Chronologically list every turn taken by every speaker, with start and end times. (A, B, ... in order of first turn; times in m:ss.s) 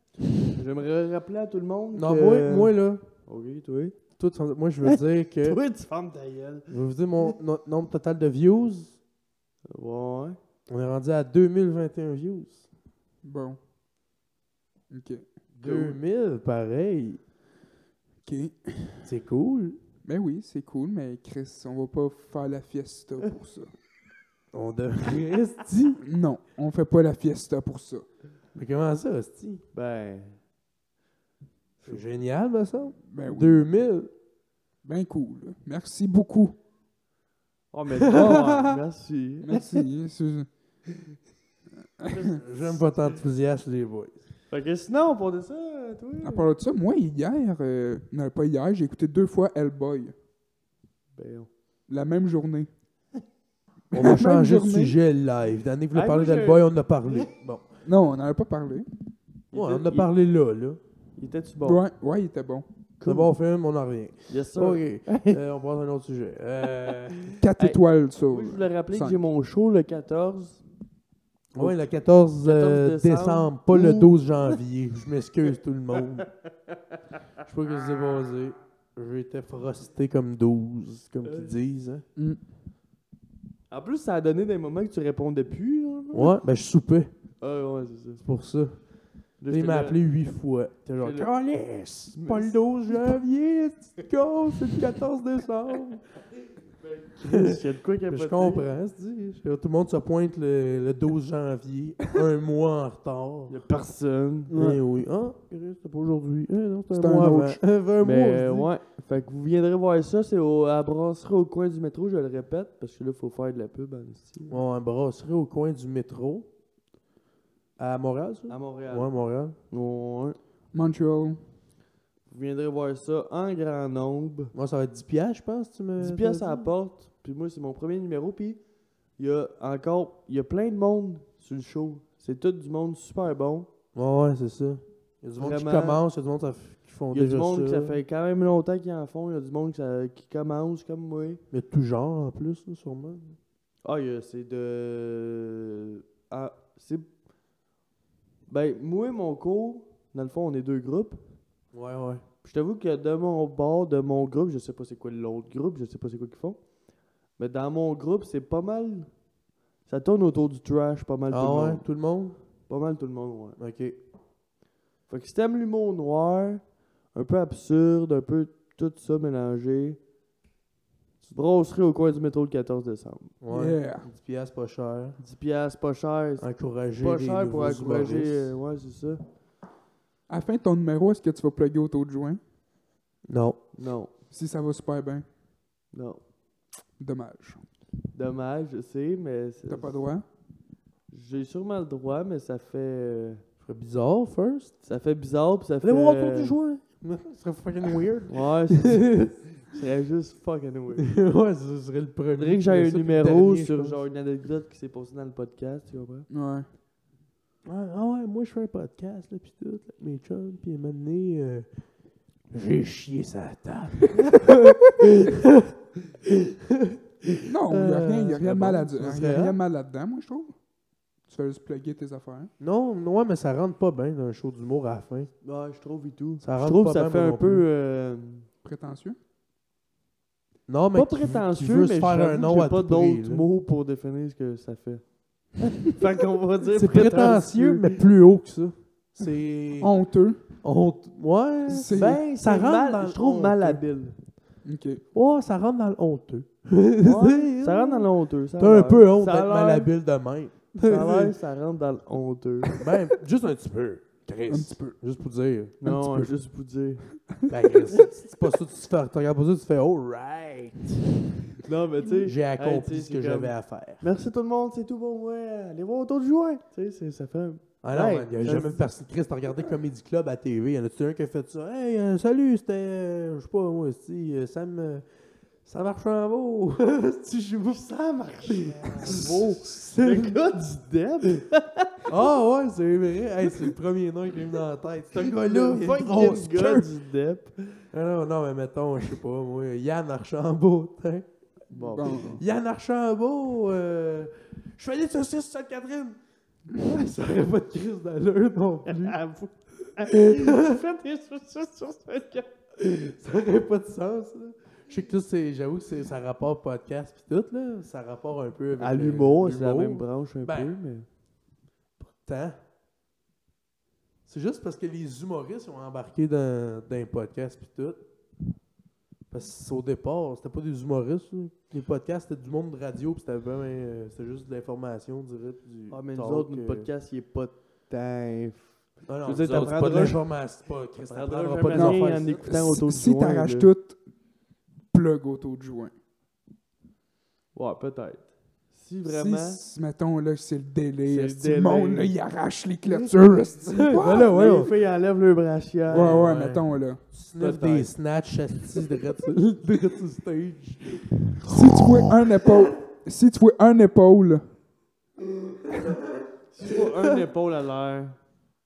0:00.6-0:04.0 A
0:01.9-0:03.0 B
0:04.2-0:05.6 B
0:04.8-0:07.3 A
0:06.7-0:09.0 B
0:09.7-0:10.4 A
0:10.7-0:12.6 B
0:13.2-0:13.6 C
0:14.9-0:15.2 C
0:15.6-0:17.2 B
0:15.6-0:15.9 A
0:18.2-0:19.1 C
0:19.0-0:19.8 B
0:20.0-0:23.7 C
0:24.5-0:26.0 B
0:26.0-0:28.0 C
0:28.5-0:29.6 B
0:29.7-0:30.4 A
0:31.8-0:34.1 B
0:33.1-0:33.7 C
0:34.8-0:36.6 C
0:37.7-0:39.8 A
0:38.0-0:38.8 B
0:39.4-0:40.5 C
0:42.0-0:42.3 C
0:42.0-0:42.6 A
0:42.4-0:44.2 B
0:44.5-0:46.5 A
0:46.2-0:50.1 C
0:51.2-0:51.5 A
0:51.9-0:52.7 C
0:53.9-0:55.0 C
0:53.9-0:57.8 B
0:55.9-0:57.3 A
0:57.8-0:58.8 C
0:59.5-1:00.1 A
0:59.5-1:00.8 B
1:01.2-1:01.8 A
1:01.6-1:02.6 C
1:03.0-1:03.3 A
1:03.0-1:07.3 B
1:04.3-1:05.4 A
1:07.3-1:10.6 A
1:07.4-1:09.2 C
1:11.5-1:16.3 B
1:12.4-1:14.6 A
1:16.7-1:17.0 A
1:17.4-1:22.0 B
1:21.3-1:21.5 A
1:22.2-1:22.4 C
1:23.7-1:26.4 A
1:26.1-1:27.1 B
1:27.4-1:28.2 A
1:28.2-1:36.0 B
1:29.4-1:30.0 A
1:31.0-1:31.3 A
1:32.1-1:32.6 A
1:36.8-1:38.6 A
1:37.2-1:43.5 B
1:43.5-1:44.5 A
1:44.5-1:44.8 C
1:44.5-1:48.7 B
1:46.9-1:47.6 C
1:48.0-1:54.6 A
1:54.5-1:56.4 B
1:57.8-1:59.6 B
1:58.5-1:59.1 A
1:59.7-2:00.4 A
2:00.7-2:01.4 C
2:02.3-2:04.5 A
2:04.5-2:06.7 B
2:06.0-2:08.6 A
2:09.2-2:13.7 A
2:13.9-2:18.0 B
2:15.4-2:16.0 A
2:17.1-2:21.4 A
2:21.5-2:23.4 B
2:23.8-2:27.1 A
2:28.5-2:31.2 A
2:31.7-2:32.2 B
2:32.4-2:36.6 A
2:37.4-2:39.1 A
2:39.8-2:41.8 A
2:41.3-2:42.4 B
2:42.7-2:43.6 A
2:43.6-2:44.0 B
2:45.1-2:50.0 A
2:51.3-2:53.3 A
2:53.4-2:55.2 B
2:53.5-2:54.0 C
2:55.2-2:59.2 A
2:56.4-2:58.5 B
3:00.3-3:02.4 C
3:03.3-3:03.6 B
3:03.7-3:04.1 A
3:04.3-3:05.2 C
3:05.9-3:06.2 A
3:07.0-3:07.6 C
3:08.1-3:10.0 A
3:09.7-3:10.2 C
3:11.1-3:13.4 A
3:13.6-3:14.8 B
3:14.8-3:16.6 A
3:15.8-3:19.4 B
3:18.3-3:21.2 A
3:21.0-3:24.0 B
3:22.4-3:26.3 A
3:26.3-3:26.7 C
3:27.6-3:31.7 B
3:32.5-3:35.7 B
3:36.2-3:39.6 B
3:37.5-3:40.6 C
3:41.3-3:42.5 C
3:42.6-3:45.3 B
3:45.4-3:48.5 A
3:46.4-3:47.7 B
3:48.6-3:49.2 C
3:50.7-3:53.4 B
3:50.9-3:58.0 A
3:56.8-4:00.0 B
3:59.8-4:00.4 C
4:00.6-4:03.8 B
4:01.7-4:02.2 C
4:01.9-4:04.2 A
4:04.6-4:05.0 C
4:05.1-4:11.3 B
4:07.0-4:09.9 A
4:10.8-4:12.8 A
4:12.8-4:16.3 B
4:14.5-4:15.0 C
4:15.8-4:17.0 A
4:17.4-4:18.0 C
4:17.5-4:21.1 B
4:21.6-4:28.8 A
4:22.0-4:24.0 B
4:27.8-4:35.0 B
4:35.6-4:40.4 B
4:38.0-4:42.2 A
4:42.1-4:46.9 B
4:45.1-4:47.8 A
4:47.9-4:56.2 B
4:51.7-4:52.3 A
4:51.9-4:52.4 C
4:56.7-4:59.2 B
4:58.8-5:02.5 A
5:00.0-5:00.8 B
5:02.8-5:10.7 B
5:08.8-5:11.0 A
5:12.0-5:12.6 B
5:14.2-5:18.0 B
5:19.3-5:26.9 B
5:25.9-5:30.2 A
5:29.1-5:32.5 B
5:31.1-5:33.7 A
5:31.7-5:34.0 C
5:34.9-5:35.9 C
5:37.5-5:39.6 A
5:39.0-5:44.3 C
5:41.0-5:42.1 A
5:42.9-5:43.1 A
5:43.7-5:44.7 B
5:43.8-5:46.2 A
5:45.9-5:52.5 B
5:45.9-5:47.0 C
5:47.4-5:47.9 A
5:51.5-5:54.5 C
5:56.5-5:58.2 A